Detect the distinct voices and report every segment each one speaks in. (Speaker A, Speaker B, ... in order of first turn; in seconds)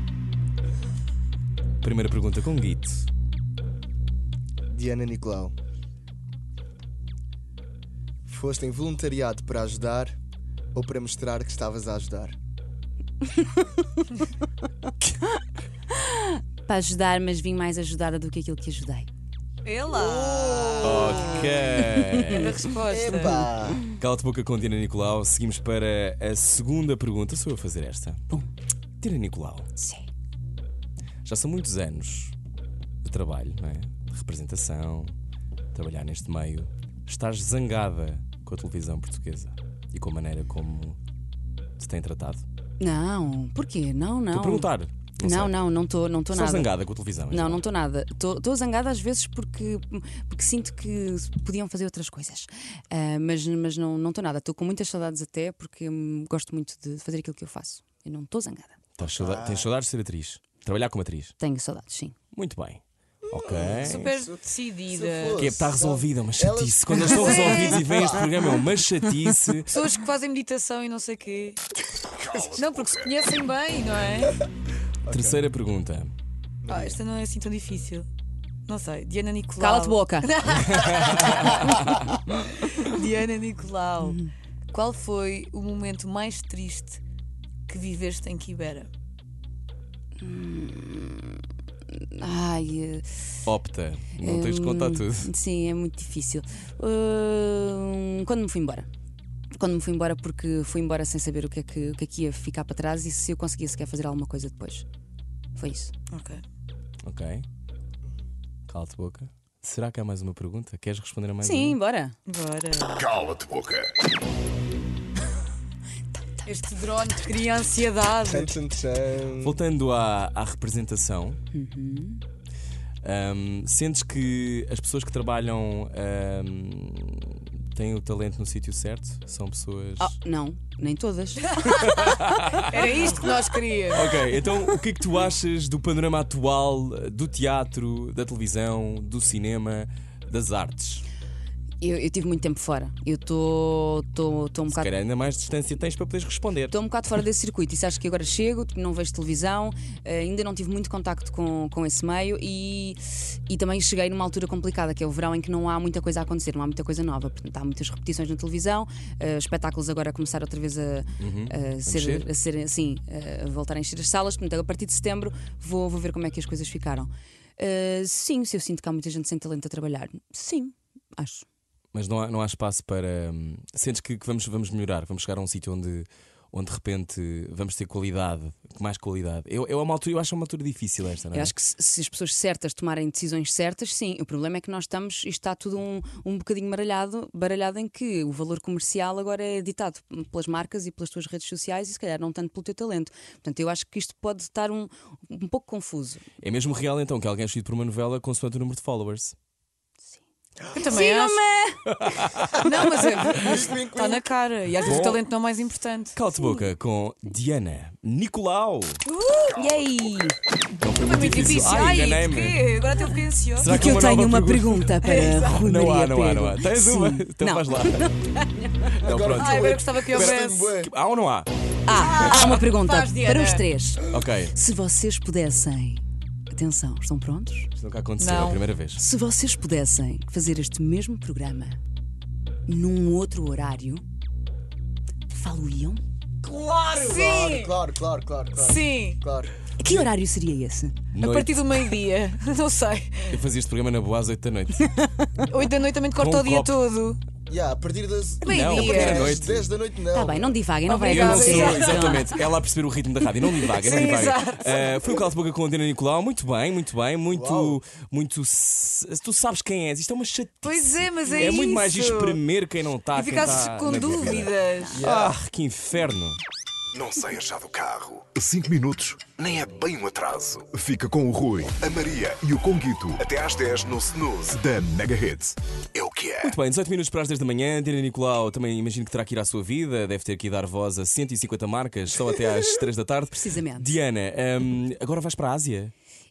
Speaker A: 1.8-3.1, 20.8-22.6, 23.9-28.2, 29.0-29.7, 31.2-32.4, 33.0-35.1, 35.7-41.0, 41.8-42.4, 44.3-45.6, 46.3-47.6, 59.0-61.3, 62.3-64.2, 65.3-69.8, 75.1-76.1, 80.5-82.0, 93.5-95.3, 107.0-107.4, 108.7-111.8, 119.4-121.4, 123.0-130.1, 131.7-132.7, 133.9-141.0, 144.7-146.7, 161.2-162.3, 171.9-181.5, 196.4-199.3, 202.0-202.6, 204.8-205.2, 206.1-209.0, 210.8-212.6, 213.6-214.9, 215.6-218.1, 218.8-221.5, 224.1-224.6, 227.7-229.0, 241.1-241.6, 243.3-244.8, 246.2-246.8, 248.4-249.7, 251.0-266.4, 276.4-285.9
Speaker B: 4.7-5.5, 8.3-10.2, 10.7-12.3, 19.9-21.5, 22.9-23.8, 59.0-59.7, 63.3-68.0, 75.0-75.4, 76.6-77.0, 118.2-119.6, 203.2-204.3, 219.0-220.9, 236.4-239.5, 247.5-250.5, 257.3-257.8, 264.9-265.4
Speaker C: 16.0-19.1, 21.5-22.3, 29.7-30.1, 42.8-58.8, 61.4-62.1, 79.6-80.5, 81.1-81.9, 84.0-84.3, 90.2-93.1, 94.2-98.9, 99.5-104.8, 105.5-105.9, 111.4-112.2, 116.1-116.5, 121.5-122.2, 130.0-131.9, 141.8-144.9, 146.7-171.4, 181.3-196.2, 200.8-202.3, 206.4-206.7, 209.5-210.4, 213.6-218.9, 221.8-227.7, 228.9-231.8, 232.7-234.0, 235.3-236.0, 239.8-241.0, 244.8-245.4, 250.1-252.3, 283.3-283.9
Speaker D: 19.6-23.5, 63.7-65.5, 67.0-67.9, 69.7-71.6, 72.5-74.4, 76.7-78.1, 78.7-84.2, 84.7-87.0, 87.7-88.9, 106.1-106.4, 112.2-113.2, 116.5-118.5, 131.8-134.4, 200.7-201.4, 202.6-206.2, 209.1-209.6, 210.9-213.8, 215.0-215.6, 219.3-220.8, 221.9-223.6, 228.2-228.6, 236.9-237.8, 238.6-239.2, 241.2-243.4, 245.4-247.2, 248.4-249.3, 250.9-252.3, 253.7-255.0, 260.6-262.4, 263.1-265.1
Speaker E: 72.2-72.9, 113.1-113.9, 266.9-276.5